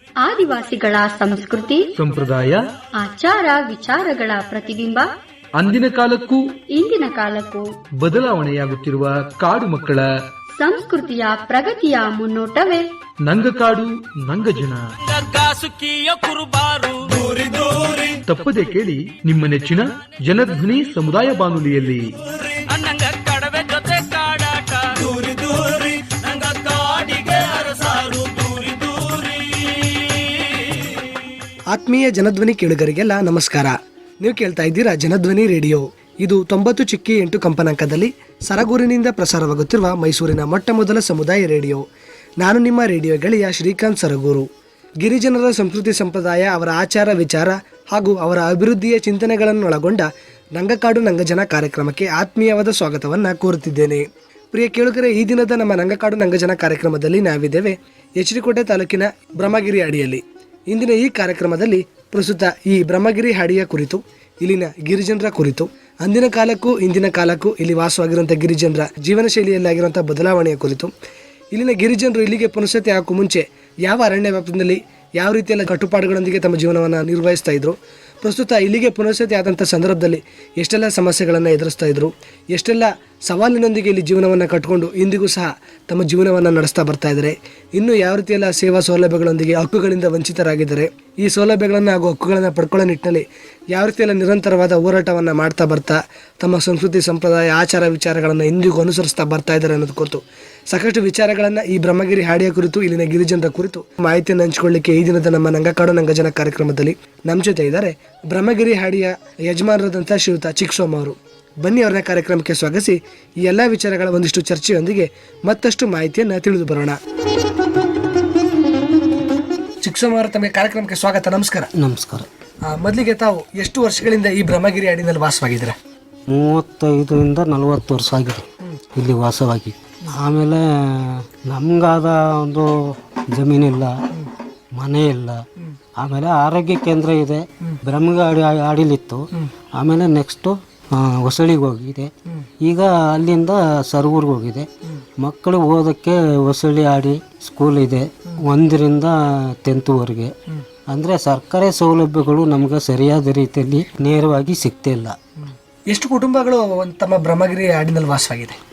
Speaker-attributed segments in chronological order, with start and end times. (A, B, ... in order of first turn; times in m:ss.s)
0:00.2-0:01.9 A
0:02.0-0:02.7 B
0:02.9-0:05.1 A
0:05.6-0:06.5 B
0:06.7-0:07.7 A
0:08.0-0:10.1 B
0:10.6-0:12.9 A
0:13.2-0:14.9 B
0:15.0-0:18.2 C
0:18.2-0:22.1 B
0:22.3-0:30.9 C
0:31.7-0:41.8 D
0:42.4-0:44.5 D
0:45.0-1:10.9 D
1:11.5-1:57.0 D
1:59.8-2:01.7 D
2:01.7-2:02.3 E
2:02.6-2:05.8 D
2:06.3-2:14.0 E
2:14.7-2:15.4 E
2:16.0-2:24.7 E
2:25.2-2:30.3 E
2:30.9-2:35.2 E
2:35.4-2:38.6 D